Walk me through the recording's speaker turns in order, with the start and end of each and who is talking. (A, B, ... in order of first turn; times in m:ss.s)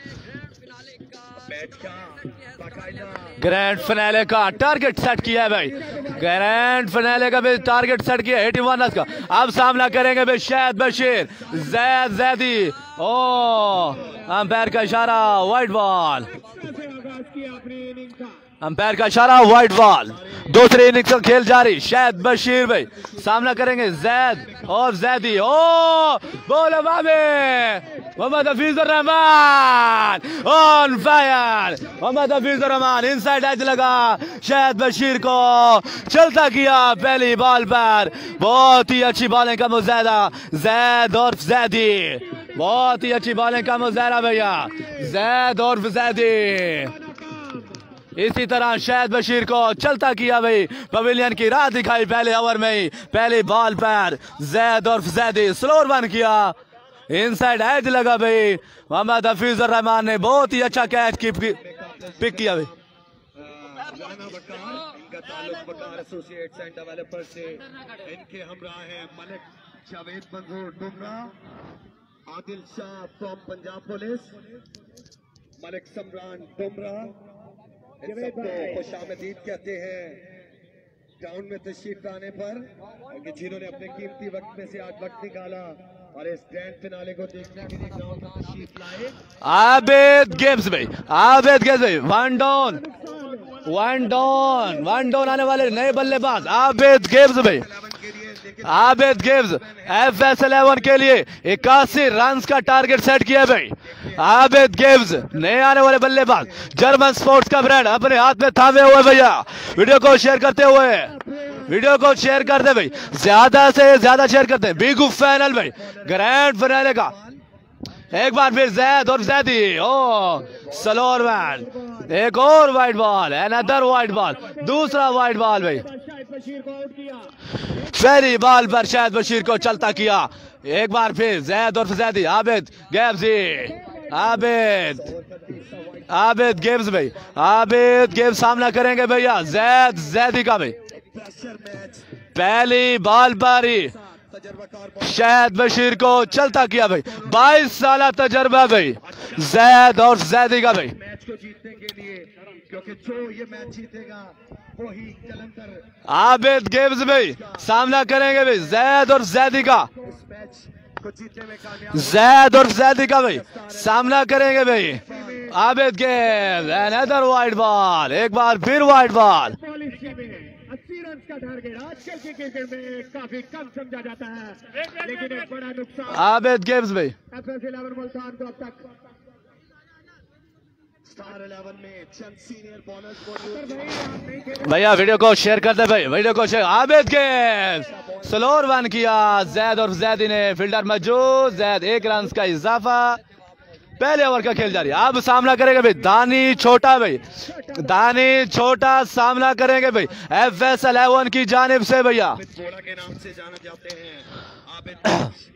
0:01.4-0:03.4 A
0:03.4-0:16.3 B
0:05.7-0:06.3 C
0:05.8-0:06.1 A
0:11.3-0:11.8 A
0:13.9-0:14.2 A
0:16.4-0:18.4 C
0:18.6-0:46.9 B
0:20.1-0:20.5 A
0:24.4-0:24.7 A
0:44.7-0:45.1 C
0:46.8-0:47.8 C
0:48.2-0:56.6 B
0:57.1-1:01.6 B
1:01.5-1:02.8 A
1:02.2-1:02.7 B
1:03.3-1:11.3 A
1:12.2-1:14.3 A
1:15.6-1:17.1 A
1:18.0-1:20.3 A
1:18.0-1:18.8 C
1:21.2-1:29.2 A
1:29.4-1:32.8 B
1:32.8-1:33.6 C
1:33.6-1:37.6 B
1:37.4-1:40.0 A
1:38.6-1:51.1 B
1:51.1-1:51.7 C
1:51.6-1:57.1 B
1:55.8-1:56.2 A
1:57.0-1:57.4 A
1:58.1-2:05.8 B
2:01.7-2:02.0 C
2:04.4-2:07.3 C
2:07.9-2:15.0 B
2:13.6-2:14.4 C
2:14.3-2:17.3 A
2:16.1-2:20.7 B
2:21.0-2:22.0 A
2:22.3-2:23.9 B
2:24.1-2:25.5 A
2:25.0-2:30.9 B
2:27.1-2:27.6 A
2:29.1-2:29.4 A
2:30.9-2:35.9 A
2:36.1-2:39.9 B
2:37.3-2:37.7 A
2:40.0-2:44.2 A
2:41.9-2:49.6 B
2:44.9-2:45.6 A
2:45.1-2:45.5 C
2:49.6-2:56.2 C
2:56.1-2:57.1 B
2:57.3-2:58.8 C
3:01.0-3:04.0 A
3:03.5-3:04.8 C
3:04.6-3:13.2 B
3:07.9-3:08.3 A
3:14.0-3:22.4 B
3:17.4-3:18.0 C
3:22.3-3:25.3 A